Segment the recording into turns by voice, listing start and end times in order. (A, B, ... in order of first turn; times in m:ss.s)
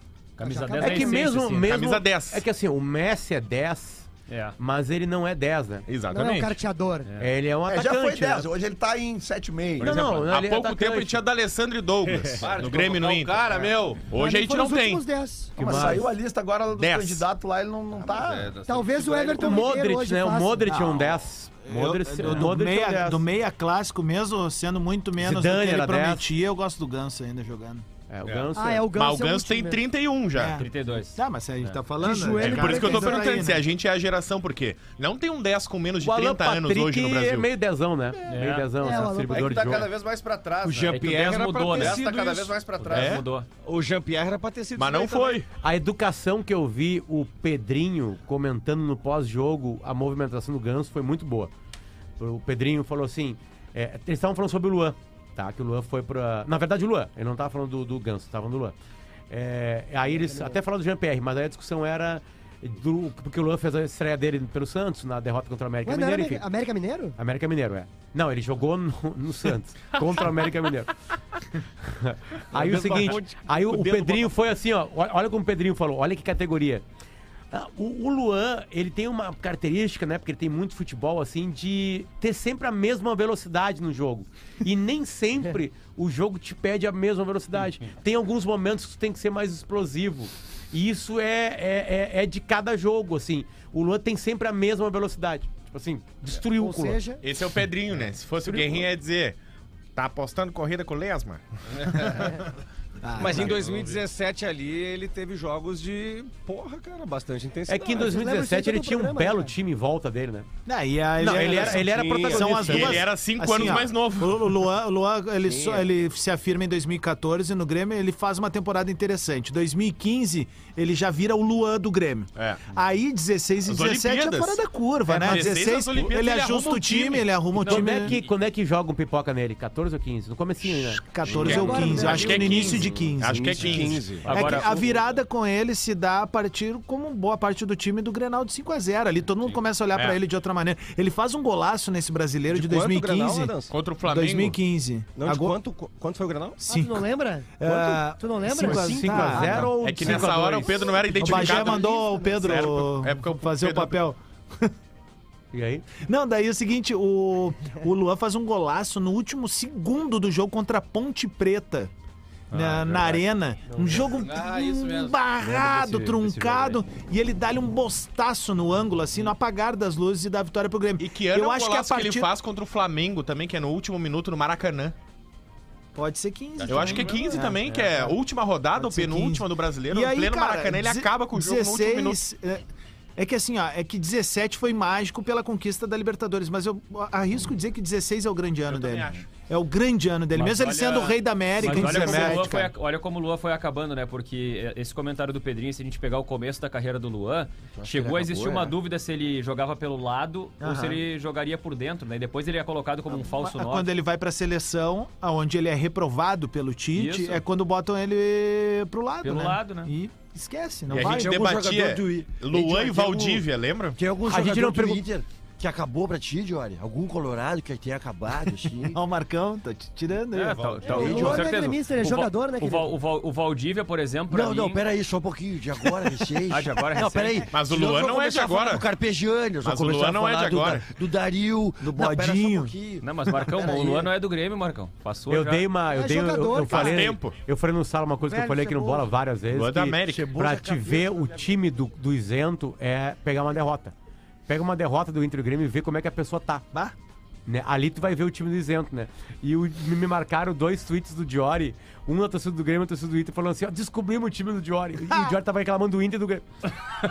0:00.4-0:01.7 A
0:00.4-0:01.2 B
0:00.8-0:04.1 C
0:01.6-0:02.4 D
0:04.3-0:04.6 A
0:04.6-0:05.8 C
0:05.9-0:06.5 D
0:06.1-0:07.1 B
0:07.2-0:08.5 C
0:07.7-0:10.1 E
0:09.8-0:11.2 C
0:09.9-0:15.0 D
0:12.3-0:14.1 F
0:14.1-0:15.5 B
0:15.6-0:16.1 C
0:15.6-0:18.5 E
0:16.8-0:17.2 D
0:17.9-0:19.7 F
0:18.7-0:20.7 B
0:19.4-0:23.2 C
0:20.6-0:27.8 G
0:25.2-0:26.3 C
0:28.1-0:28.9 C
0:28.2-0:28.5 F
0:28.5-0:29.8 B
0:28.9-0:30.6 D
0:30.3-0:33.6 G
0:30.6-0:31.7 A
0:32.0-0:33.4 B
0:32.4-0:37.5 D
0:36.0-0:39.9 C
0:38.3-0:38.7 A
0:38.8-0:39.8 B
0:39.3-0:43.2 F
0:40.6-0:42.0 H
0:40.7-0:43.4 A
0:42.9-0:43.2 D
0:43.6-0:45.4 H
0:44.8-0:45.5 D
0:45.6-0:51.5 C
0:52.2-0:58.7 C
0:59.3-1:06.4 C
1:00.1-1:00.6 B
1:05.8-1:07.2 B
1:07.2-1:10.9 C
1:11.8-1:16.8 C
1:12.5-1:14.4 H
1:17.5-1:37.0 C
1:36.6-1:37.2 B
1:37.2-1:39.4 D
1:38.4-1:38.8 C
1:40.0-1:41.4 D
1:41.8-1:42.3 F
1:43.0-1:43.6 G
1:43.2-1:48.1 H
1:43.4-1:44.0 F
1:47.7-1:50.5 C
1:48.0-1:49.5 B
1:50.6-2:08.2 G
1:51.2-1:53.0 C
1:51.4-1:52.6 H
1:52.5-1:54.6 D
1:55.4-1:55.8 I
2:02.3-2:02.7 D
2:03.6-2:07.3 D
2:07.6-2:08.3 A
2:07.6-2:11.8 C
2:10.6-2:25.6 G
2:11.2-2:12.5 I
2:11.4-2:14.1 D
2:11.5-2:12.5 B
2:13.2-2:14.6 I
2:14.2-2:15.1 A
2:19.9-2:20.2 D
2:22.5-2:23.5 H
2:22.6-2:23.7 I
2:23.7-2:24.6 D
2:25.1-2:26.6 I
2:26.6-2:27.0 G
2:26.6-2:29.6 B
2:27.6-2:30.4 G
2:28.4-2:31.8 C
2:29.7-2:34.0 D
2:31.1-2:34.7 G
2:35.5-2:35.9 C
2:36.0-2:41.9 G
2:42.5-2:43.2 A
2:42.5-2:52.3 G
2:43.9-2:45.2 F
2:45.4-2:46.8 A
2:51.0-2:54.9 D
2:55.9-2:58.2 G
2:56.6-2:57.4 F
2:56.6-3:02.2 D
2:58.7-3:02.6 G
3:03.2-3:12.7 G
3:08.7-3:09.3 D
3:10.3-3:24.0 A
3:11.6-3:12.6 C
3:17.8-3:18.7 I
3:20.6-3:21.0 G
3:23.2-3:31.4 G
3:26.9-3:27.4 A
3:29.2-3:29.9 A
3:30.9-3:34.0 D
3:31.0-3:33.4 I
3:33.9-3:39.0 I
3:34.2-3:35.0 C
3:38.9-3:41.0 G
3:40.3-3:44.9 A
3:40.6-3:41.4 F
3:40.8-3:41.4 I
3:40.9-3:42.9 B
3:44.3-3:54.0 I
3:46.4-3:47.5 A
3:47.5-3:48.9 D
3:49.6-3:50.9 D
3:51.8-3:52.7 G
3:53.0-3:55.7 A
3:55.3-4:03.9 C
3:55.9-3:57.1 B
3:56.6-3:57.4 D
3:58.2-3:59.1 B
3:59.5-4:00.3 D
4:00.0-4:01.3 I
4:04.5-4:06.8 C
4:07.4-4:16.4 C